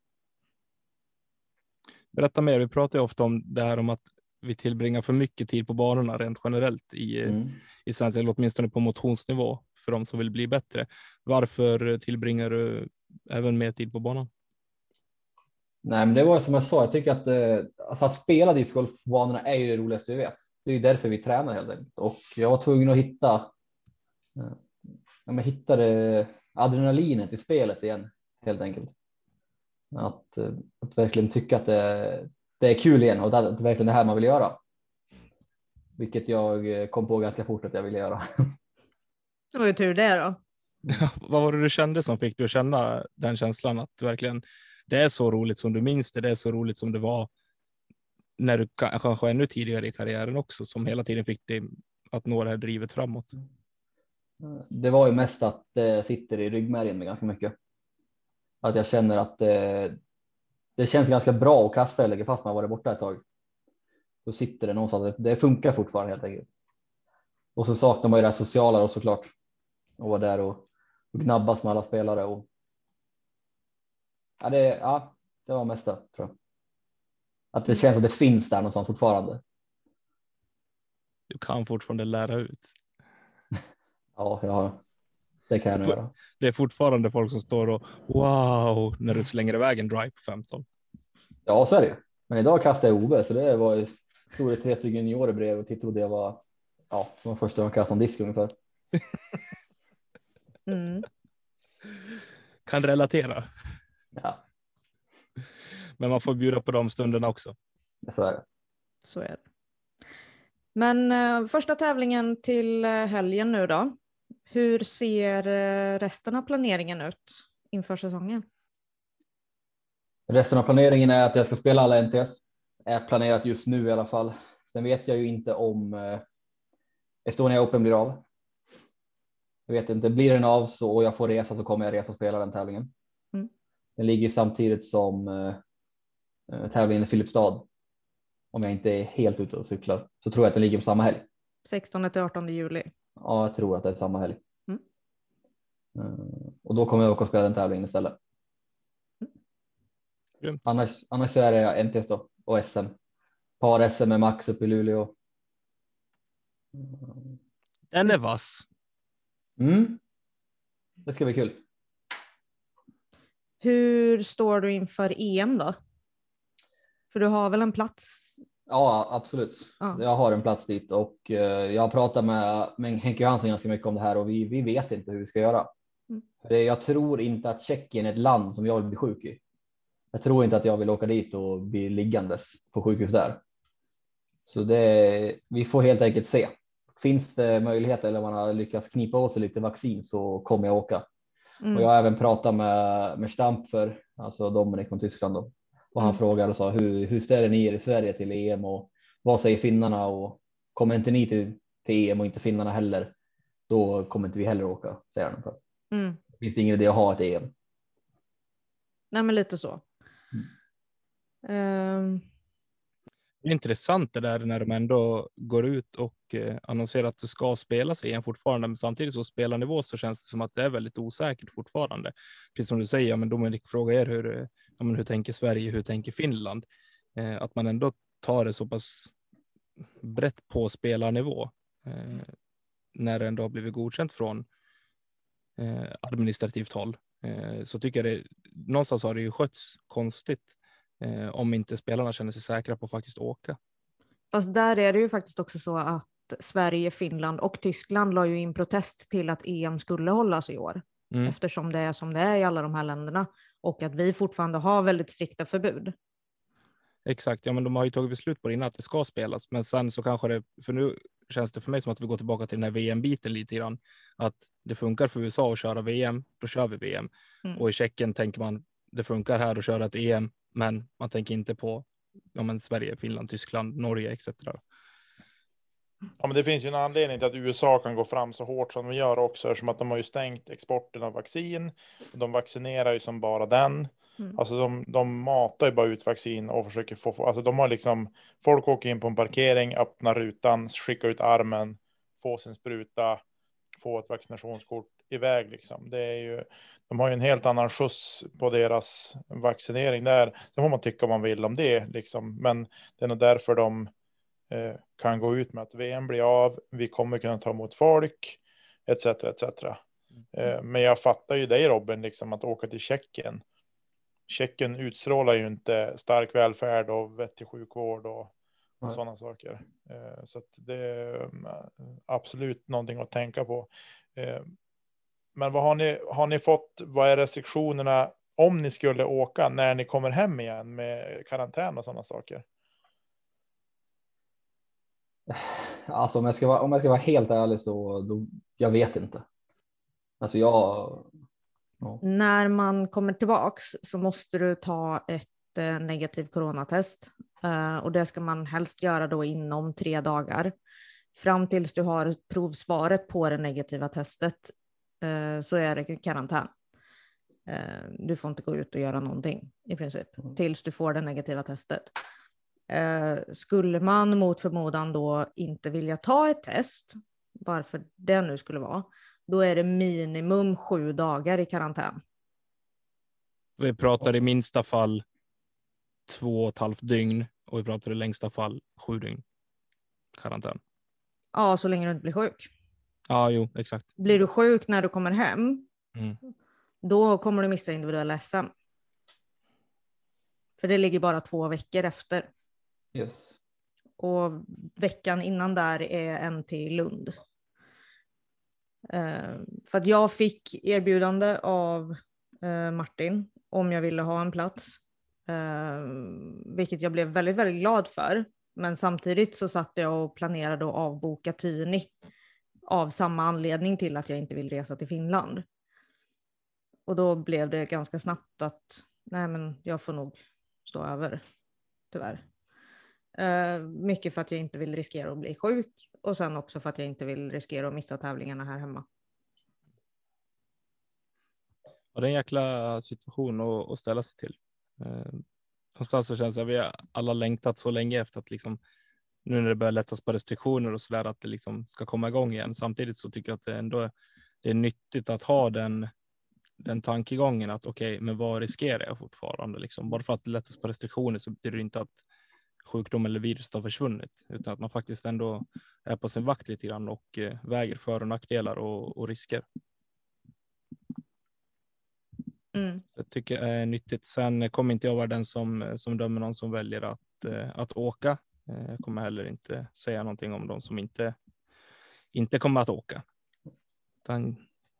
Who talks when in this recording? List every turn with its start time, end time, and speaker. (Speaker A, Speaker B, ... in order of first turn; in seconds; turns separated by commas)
Speaker A: 2.1-14.3, Speaker B: 7.2-7.6, Speaker B: 15.8-23.5, Speaker B: 25.2-28.9, Speaker B: 29.9-34.6, Speaker B: 36.0-38.5, Speaker C: 39.5-40.4, Speaker A: 40.9-47.3, Speaker A: 48.4-53.3, Speaker B: 54.4-57.5, Speaker B: 58.6-60.0, Speaker B: 60.8-63.2, Speaker B: 64.2-66.5, Speaker B: 67.5-69.3, Speaker B: 70.0-72.5, Speaker B: 74.4-76.3, Speaker B: 77.5-79.4, Speaker A: 81.3-82.7, Speaker B: 84.2-84.8, Speaker B: 85.5-86.1, Speaker A: 85.8-90.6, Speaker B: 91.5-98.5, Speaker C: 100.7-101.1, Speaker A: 102.7-103.5, Speaker B: 104.1-104.4, Speaker A: 106.0-107.5, Speaker B: 108.0-108.4, Speaker C: 109.0-109.4, Speaker C: 110.7-114.0, Speaker C: 114.5-118.4, Speaker B: 120.3-126.2, Speaker B: 127.2-128.2, Speaker B: 129.7-132.9, Speaker B: 134.0-135.6, Speaker B: 136.5-137.7, Speaker B: 138.5-141.3, Speaker C: 141.7-142.9, Speaker B: 143.2-144.4, Speaker B: 145.9-148.2, Speaker B: 150.6-152.9, Speaker B: 153.6-155.1, Speaker B: 156.8-157.3, Speaker A: 157.9-158.6, Speaker B: 159.6-160.0, Speaker B: 161.0-161.6, Speaker C: 163.6-165.8, Speaker C: 167.1-168.4, Speaker B: 168.7-175.7, Speaker B: 176.4-179.4, Speaker B: 180.1-183.4, Speaker B: 184.4-191.1, Speaker C: 191.6-191.9, Speaker B: 191.7-203.1, Speaker B: 203.7-205.6, Speaker C: 205.9-206.2, Speaker B: 206.3-207.5, Speaker C: 209.1-209.8, Speaker C: 211.4-212.2, Speaker A: 213.4-229.1, Speaker A: 230.0-232.3, Speaker A: 232.9-234.4, Speaker A: 235.6-243.6, Speaker C: 244.3-255.9, Speaker A: 251.1-251.3, Speaker A: 257.0-274.6, Speaker D: 276.2-293.2, Speaker D: 293.8-303.9, Speaker D: 304.5-309.8, Speaker D: 310.3-313.4, Speaker D: 314.3-318.3, Speaker D: 318.9-324.5, Speaker D: 325.4-332.4, Speaker B: 335.3-339.2, Speaker B: 340.2-341.1, Speaker C: 342.0-350.5, Speaker C: 351.1-356.5, Speaker C: 357.5-361.9, Speaker C: 362.7-372.0, Speaker A: 373.6-375.0, Speaker A: 376.1-379.2, Speaker A: 380.1-380.6, Speaker C: 381.3-382.5, Speaker A: 383.1-383.9, Speaker C: 384.0-385.6, Speaker C: 386.8-388.5, Speaker C: 390.6-392.3, Speaker B: 392.9-393.4, Speaker C: 394.0-397.2, Speaker C: 398.9-411.9, Speaker C: 412.7-415.4, Speaker C: 416.9-421.2, Speaker C: 421.9-422.2, Speaker C: 423.1-428.8, Speaker A: 431.9-435.2, Speaker A: 435.8-438.6, Speaker A: 439.2-443.9, Speaker A: 444.4-445.9, Speaker A: 446.6-452.0, Speaker A: 452.6-459.4, Speaker C: 462.5-462.8, Speaker A: 462.9-471.1, Speaker A: 472.1-473.0, Speaker A: 474.0-474.4